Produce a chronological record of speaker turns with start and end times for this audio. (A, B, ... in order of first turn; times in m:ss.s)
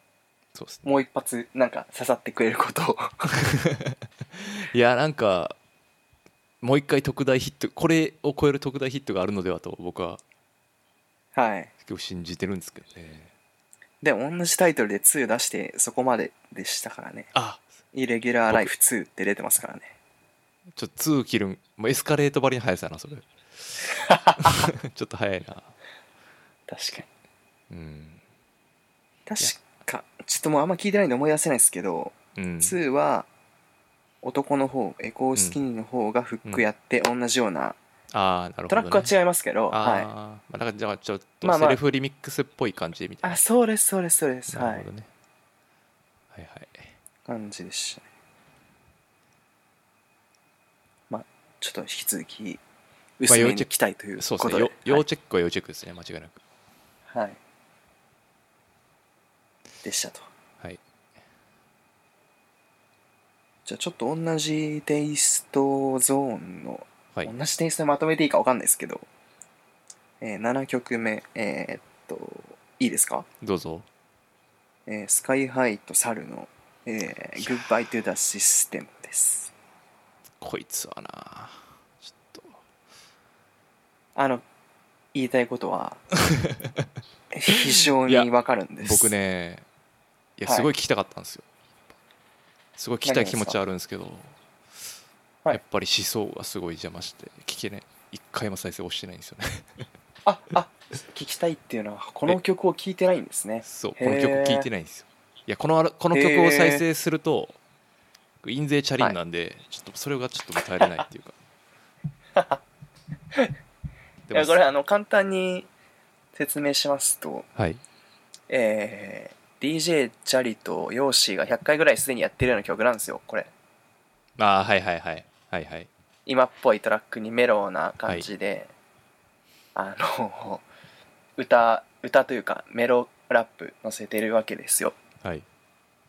0:00.5-0:00.8 A
0:00.8-0:03.4 B
0:03.4-0:05.6 A
0:06.6-0:10.2 A
0:11.3-0:11.7 B
0:11.8-0:13.3 A
0:14.0-0:17.3 B
0:17.3-0:17.7 A
0:17.9-0:19.9 B
0:18.4-0:18.7 A
0:20.7-0:23.8 A
0:24.1-0:24.7 B
0:24.4-0:25.7 A
0:26.7-0:27.1 B
0:27.7-0:28.2 A
0:29.3-0:33.3 B
0:32.3-0:32.8 A
0:34.2-0:37.8 B
0:38.1-0:39.1 A
0:38.7-0:40.1 B
0:39.7-0:43.4 A
0:41.4-0:41.8 B
0:43.2-0:44.9 B
0:44.5-0:45.1 A
0:46.3-0:46.9 A
0:47.3-0:48.0 B
0:51.1-0:52.6 B
0:53.2-0:55.0 B
0:53.3-0:56.4 A
0:57.1-0:57.4 B
0:59.8-1:00.2 B
1:03.6-1:09.0 B
1:10.2-1:13.2 B
1:13.4-1:13.9 A
1:14.9-1:19.5 B
1:17.4-1:17.6 A
1:20.4-1:22.6 A
1:24.2-1:24.4 B
1:25.1-1:26.0 B
1:26.2-1:26.9 A
1:27.3-1:29.1 B
1:27.5-1:28.3 A
1:28.8-1:29.6 A
1:30.4-1:31.5 A
1:32.8-1:34.4 A
1:33.0-1:33.6 B
1:35.5-1:39.8 A
1:40.2-1:44.7 B
1:43.6-1:47.6 A
1:46.1-1:46.8 B
1:48.4-1:51.4 A
1:54.3-1:54.6 A
1:54.3-1:55.7 B
1:56.3-1:57.5 B
1:57.6-1:57.8 A
1:58.5-2:03.5 B
2:04.4-2:05.9 A
2:06.2-2:08.7 B
2:09.7-2:10.6 B
2:11.4-2:15.0 B